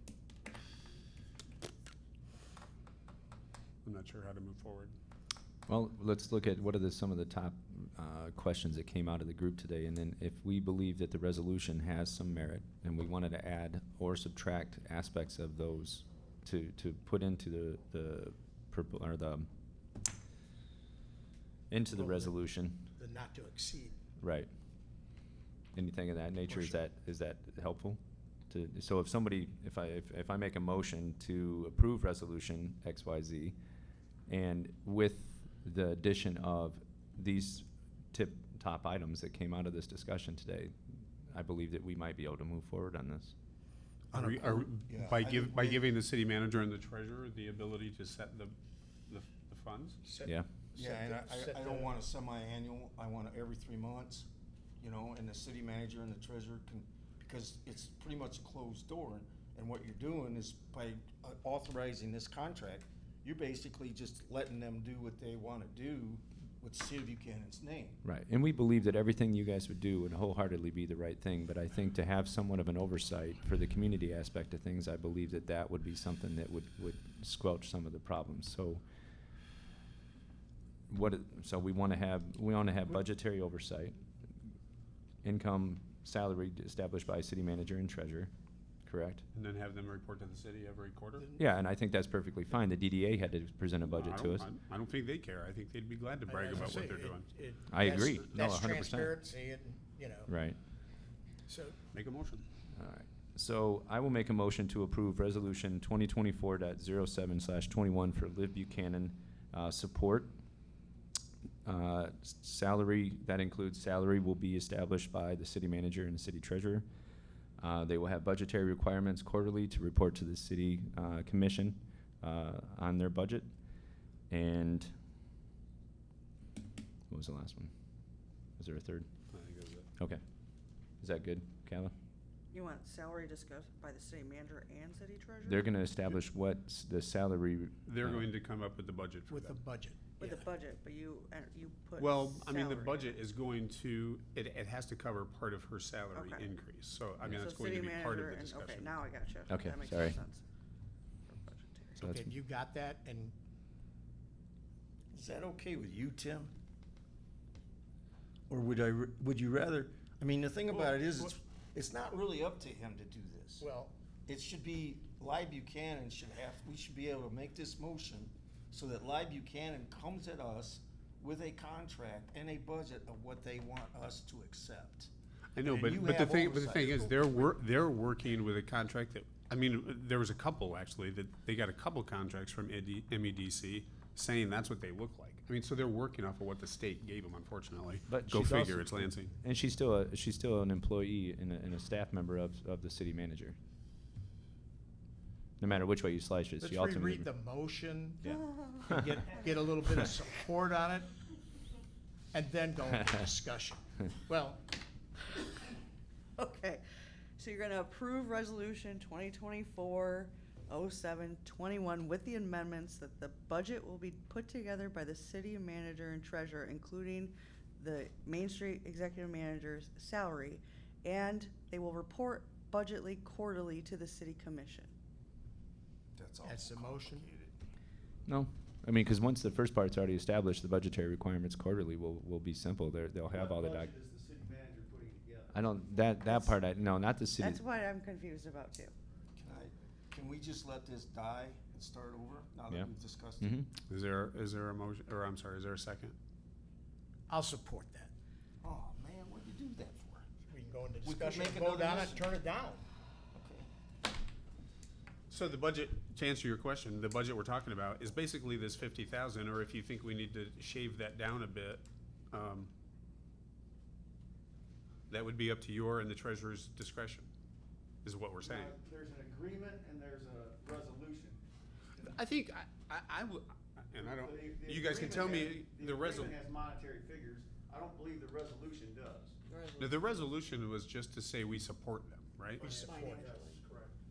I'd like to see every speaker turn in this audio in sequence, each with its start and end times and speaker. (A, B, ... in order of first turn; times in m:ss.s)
0:03.8-0:05.0 A
0:05.7-0:19.5 B
0:21.7-0:22.9 B
0:22.0-0:22.2 C
0:23.0-0:24.0 C
0:24.2-0:24.5 B
0:25.8-0:28.0 B
0:26.5-0:26.7 C
0:28.5-0:33.6 B
0:34.3-0:43.3 B
0:44.1-0:48.6 A
0:44.1-0:45.8 D
0:49.1-0:50.0 A
0:50.1-0:51.9 C
0:50.8-0:54.3 D
0:54.8-1:08.0 D
1:08.0-1:18.8 B
1:20.9-1:24.0 B
1:25.2-1:28.3 B
1:28.8-1:29.2 B
1:29.3-1:31.3 A
1:31.4-1:34.5 B
1:33.9-1:37.3 A
1:36.3-1:40.3 C
1:37.7-1:39.2 B
1:40.3-1:40.6 B
1:41.5-1:41.8 C
1:41.9-1:42.4 A
1:42.8-1:50.3 B
1:51.6-1:56.9 B
1:57.6-2:03.5 B
2:04.3-2:04.9 B
2:07.1-2:07.7 B
2:08.6-2:09.1 B
2:09.3-2:09.9 A
2:11.0-2:11.9 B
2:12.5-2:15.7 E
2:15.4-2:18.3 B
2:17.9-2:19.6 A
2:19.3-2:20.4 C
2:20.2-2:23.1 E
2:22.0-2:28.9 A
2:26.1-2:26.5 E
2:27.2-2:30.4 E
2:29.5-2:30.2 B
2:31.3-2:32.0 E
2:32.0-2:32.3 B
2:32.0-2:33.4 C
2:35.1-2:36.5 D
2:38.5-2:43.7 D
2:43.6-2:43.9 C
2:44.3-2:55.1 D
2:55.5-3:09.3 A
2:55.6-2:57.3 D
3:08.1-3:13.6 B
3:15.6-3:17.3 B
3:16.6-3:18.3 C
3:18.2-3:19.2 B
3:18.4-3:18.9 E
3:18.9-3:21.1 C
3:22.3-3:24.6 C
3:26.4-3:26.8 E
3:27.4-3:44.9 E
3:46.2-3:47.6 D
3:46.4-3:47.3 C
3:48.3-3:53.9 B
3:53.3-3:55.8 F
3:55.5-3:57.6 B
3:56.2-3:56.6 E
3:57.4-3:58.9 E
3:59.4-4:03.5 D
4:03.4-4:03.7 B
4:03.9-4:06.2 A
4:07.3-4:08.1 C
4:08.6-4:10.3 D
4:10.5-4:12.8 C
4:11.0-4:12.3 D
4:13.3-4:13.7 D
4:15.3-4:22.7 A
4:25.1-4:27.3 A
4:28.0-4:28.8 A
4:28.4-4:31.4 F
4:32.0-4:36.4 A
4:34.0-4:39.4 F
4:39.5-4:40.0 E
4:39.8-4:42.7 A
4:42.6-4:43.4 C
4:42.7-4:43.9 F
4:42.9-4:43.6 E